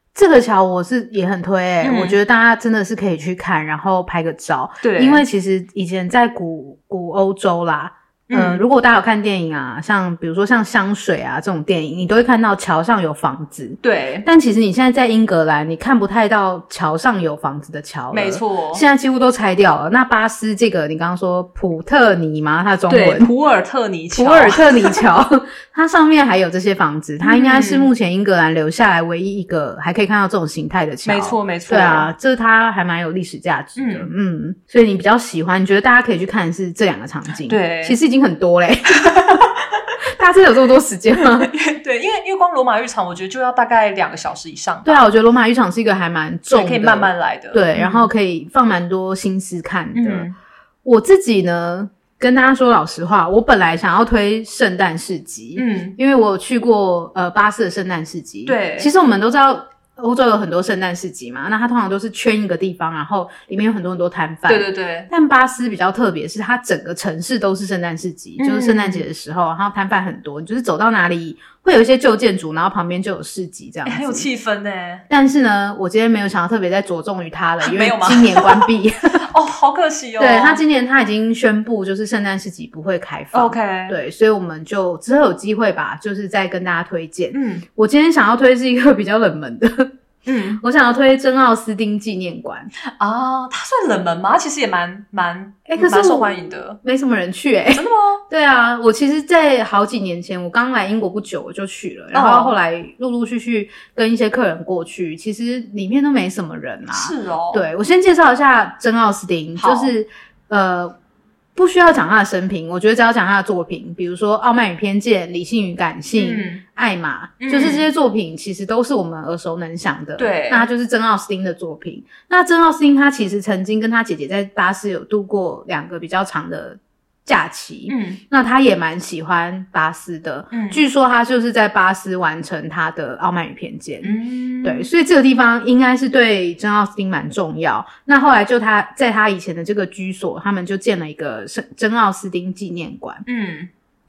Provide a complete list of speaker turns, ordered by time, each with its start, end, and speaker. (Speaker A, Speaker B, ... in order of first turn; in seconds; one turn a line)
Speaker A: 0.1-23.3
Speaker B: 1.8-2.2
Speaker B: 4.8-5.2
Speaker B: 8.3-8.6
Speaker B: 13.8-14.3
Speaker B: 18.1-18.8
Speaker B: 22.9-25.0
Speaker A: 24.1-39.4
Speaker B: 27.2-27.9
Speaker B: 31.0-32.1
Speaker B: 33.8-34.1
Speaker B: 37.5-38.0
Speaker A: 40.2-41.5
Speaker B: 41.5-45.0
Speaker A: 44.9-50.3
Speaker B: 46.5-48.1
Speaker B: 50.0-50.3
Speaker A: 50.9-74.3
Speaker B: 55.6-56.0
Speaker B: 58.5-58.9
Speaker B: 64.5-65.1
Speaker B: 68.4-69.0
Speaker B: 73.9-75.0
Speaker A: 75.1-79.2
Speaker B: 77.6-78.7
Speaker B: 79.3-80.6
Speaker A: 80.2-89.9
Speaker B: 83.3-84.0
Speaker B: 87.3-87.6
Speaker B: 90.3-90.6
Speaker A: 90.6-92.7
Speaker B: 93.0-96.8
Speaker A: 95.7-111.0
Speaker B: 97.8-98.2
Speaker B: 102.1-102.6
Speaker B: 106.9-107.6
Speaker B: 109.6-109.9
Speaker A: 111.6-143.2
Speaker B: 116.2-116.6
Speaker B: 117.4-117.9
Speaker B: 120.2-120.7
Speaker B: 127.9-128.2
Speaker B: 130.5-130.8
Speaker B: 134.0-134.9
Speaker B: 143.3-143.7